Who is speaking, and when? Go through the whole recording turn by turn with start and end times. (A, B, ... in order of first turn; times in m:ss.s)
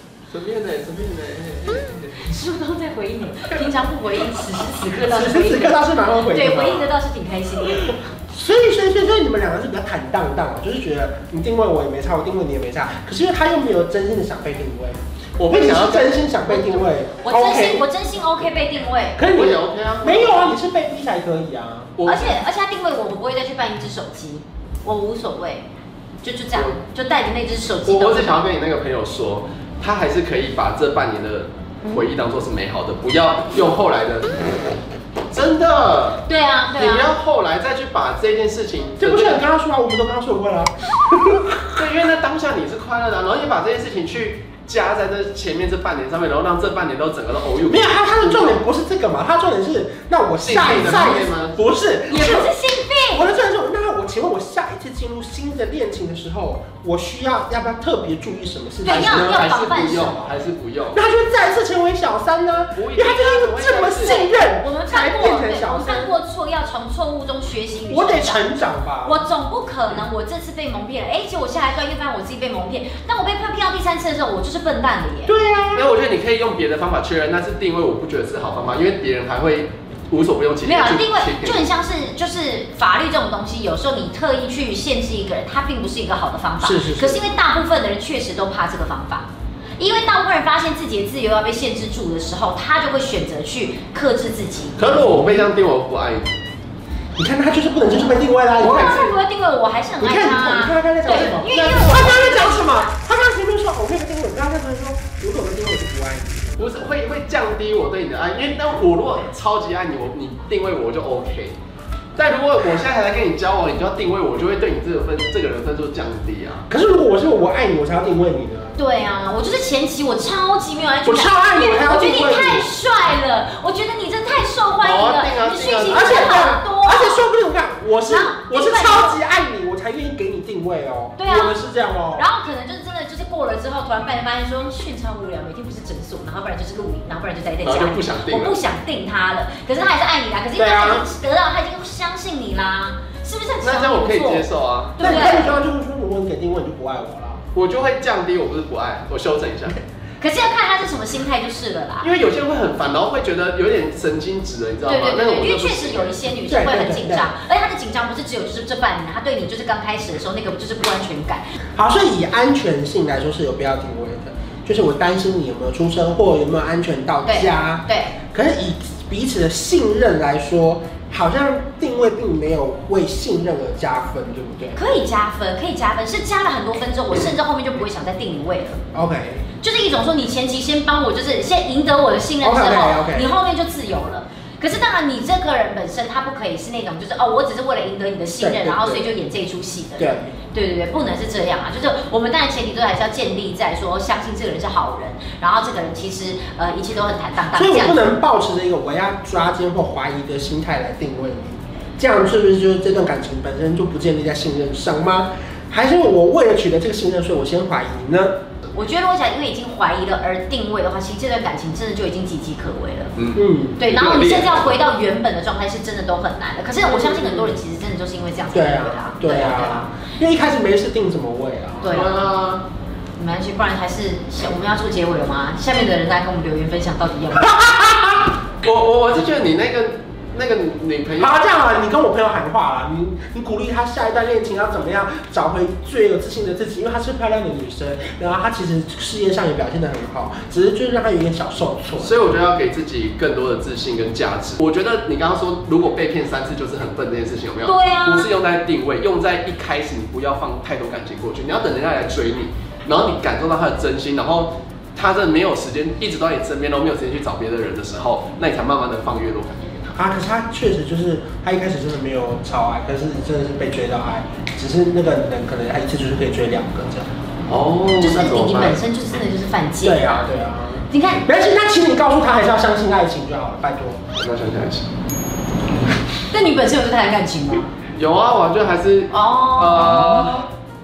0:00.3-0:02.3 A
0:02.2-0:08.0 B
0:05.1-0:06.9 C
0:07.6-0:17.8 C
0:15.4-0:16.8 A
0:17.1-0:19.3 B
0:19.2-0:21.9 C
0:19.3-0:20.5 A
0:22.0-0:22.4 A
0:22.0-0:25.6 B
0:26.2-0:28.4 B
0:26.5-0:26.8 A
0:27.8-0:34.5 A
0:35.3-0:39.5 A
0:36.3-0:37.1 B
0:39.0-0:41.8 C
0:41.8-0:48.6 A
0:47.6-0:52.5 C
0:50.4-0:51.6 A
0:50.7-0:51.3 B
0:52.1-0:53.3 B
0:53.1-0:59.4 C
0:58.8-1:00.3 B
0:58.9-1:01.0 A
1:00.9-1:06.2 C
1:02.7-1:04.2 A
1:04.1-1:08.4 B
1:07.9-1:09.2 C
1:09.0-1:15.3 B
1:15.2-1:15.9 C
1:15.7-1:21.7 A
1:20.6-1:29.3 B
1:26.6-1:27.2 C
1:29.8-1:34.8 B
1:34.8-1:36.3 A
1:37.2-1:39.0 C
1:38.6-1:39.2 A
1:38.6-1:42.9 B
1:40.0-1:46.5 C
1:41.0-1:41.4 A
1:46.6-1:51.6 A
1:52.1-1:56.7 A
1:56.7-1:58.8 C
1:58.8-2:07.3 B
2:01.0-2:02.7 C
2:04.8-2:06.4 A
2:05.9-2:12.3 C
2:08.0-2:09.2 B
2:11.2-2:11.6 B
2:12.1-2:25.6 B
2:17.6-2:18.6 A
2:20.6-2:21.1 C
2:23.6-2:25.3 A
2:25.0-2:27.4 C
2:27.5-2:29.8 A
2:30.2-2:32.1 B
2:32.0-2:36.3 A
2:34.8-2:41.4 B
2:36.4-2:37.3 C
2:41.8-2:54.8 C
2:47.2-2:48.2 B
2:54.7-2:58.8 B
2:58.9-2:59.5 C
2:59.6-3:18.2 B
3:02.4-3:03.3 C
3:08.4-3:09.1 C
3:10.0-3:10.4 C
3:17.5-3:28.4 C
3:28.7-3:33.2 B
3:33.2-3:34.8 A
3:33.3-3:34.0 C
3:33.8-3:39.9 B
3:36.8-3:37.5 C
3:38.5-3:42.1 C
3:41.8-3:42.2 B
3:41.8-3:42.6 A
3:43.2-3:47.9 B
3:47.4-3:48.3 C
3:48.6-3:51.6 A
3:51.2-4:02.2 C
4:02.0-4:19.9 A
4:07.6-4:08.3 B
4:20.0-4:27.1 C
4:27.5-4:28.8 A
4:28.0-4:30.2 B
4:29.8-4:34.0 C
4:30.9-4:31.2 B
4:34.1-4:34.9 A
4:36.3-4:37.7 B
4:37.9-4:40.5 A
4:39.1-4:40.4 B